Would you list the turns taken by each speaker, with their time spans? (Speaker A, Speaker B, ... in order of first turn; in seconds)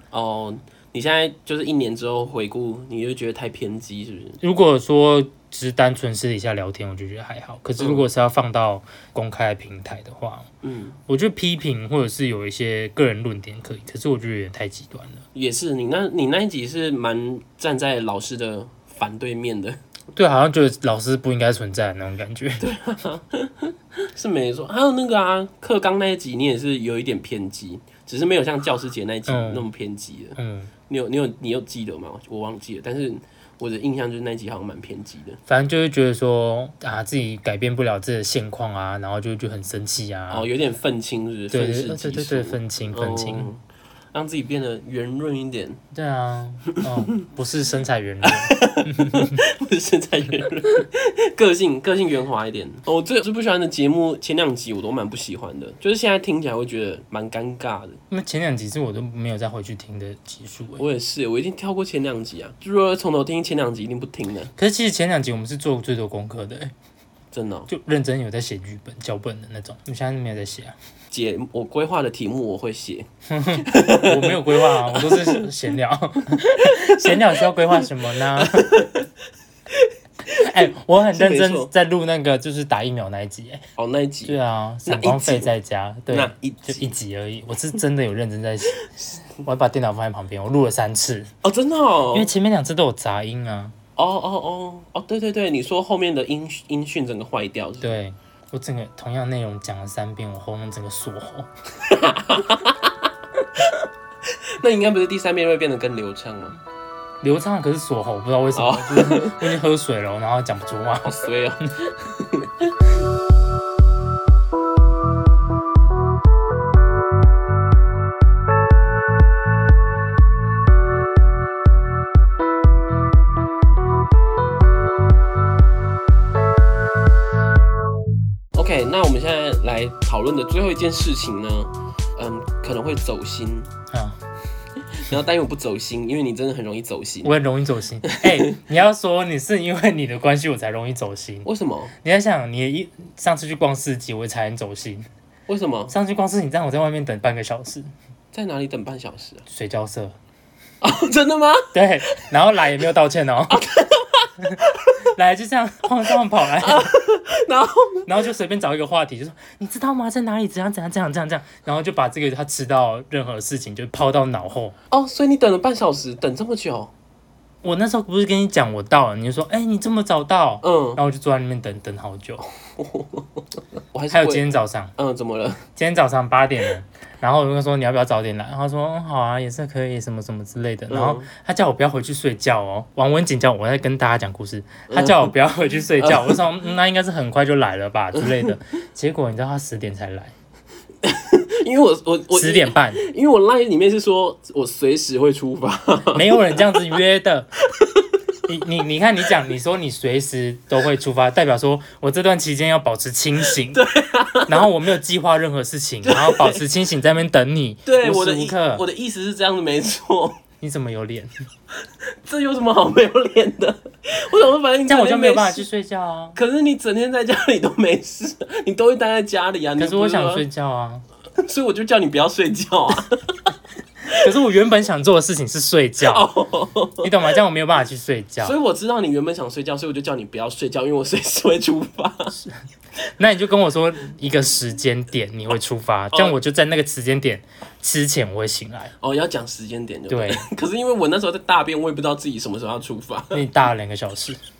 Speaker A: 0.1-4.4, 7.8-8.1, 10.6-11.0, 15.3-19.8, 22.6-35.4, 40.3-43.6, 44.1-45.8, 46.8-47.1, 48.2-58.0, 60.8-64.5, 67.3-67.7, 71.1-75.5, 76.5-77.8, 78.3-79.1, 79.7-81.7, 83.8-85.5, 86.1-86.9, 91.4-92.3, 94.0-98.0, 101.8-106.6, 108.5-109.5, 111.0-112.7, 128.5-133.7, 134.9-137.3, 138.0-138.6, 141.4-141.9, 145.5-145.9, 148.3-149.4, 150.8-152.2, 153.5-155.0, 156.6-158.1, 164.9-166.9, 170.6-171.0, 172.7-175.7, 180.9-181.3, 184.9-185.3, 186.0-186.4, 188.2-188.5, 191.0-196.7, 197.7-198.1, 203.7-204.7, 206.0-206.6, 207.8-210.4, 212.2-215.6, 216.3-220.4, 221.4-223.5, 226.1-227.1, 228.4-232.4, 239.0-243.4
Speaker B: 4.4-10.5, 11.1-15.2, 20.1-22.6, 29.3-29.6, 30.4-30.7, 35.5-40.5, 41.5-43.5, 45.9-49.4, 58.1-60.8, 64.6-66.7, 67.7-70.8, 73.3-78.8, 80.3-83.6, 84.2-91.3, 92.1-93.8, 97.8-101.5, 107.2-111.2, 133.9-134.2, 137.2-141.5, 142.0-145.1, 145.9-147.9, 149.5-150.2, 151.7-153.6, 154.4-156.9, 158.1-164.8, 167.6-172.4, 174.1-174.9, 175.8-190.3, 192.3-193.0, 196.1-197.5, 198.5-203.8, 204.5-208.8, 210.6-211.3, 214.8-216.4, 219.8-221.0, 224.1-226.3, 227.0-228.5, 233.2-238.9, 240.1-240.4, 243.3-244.4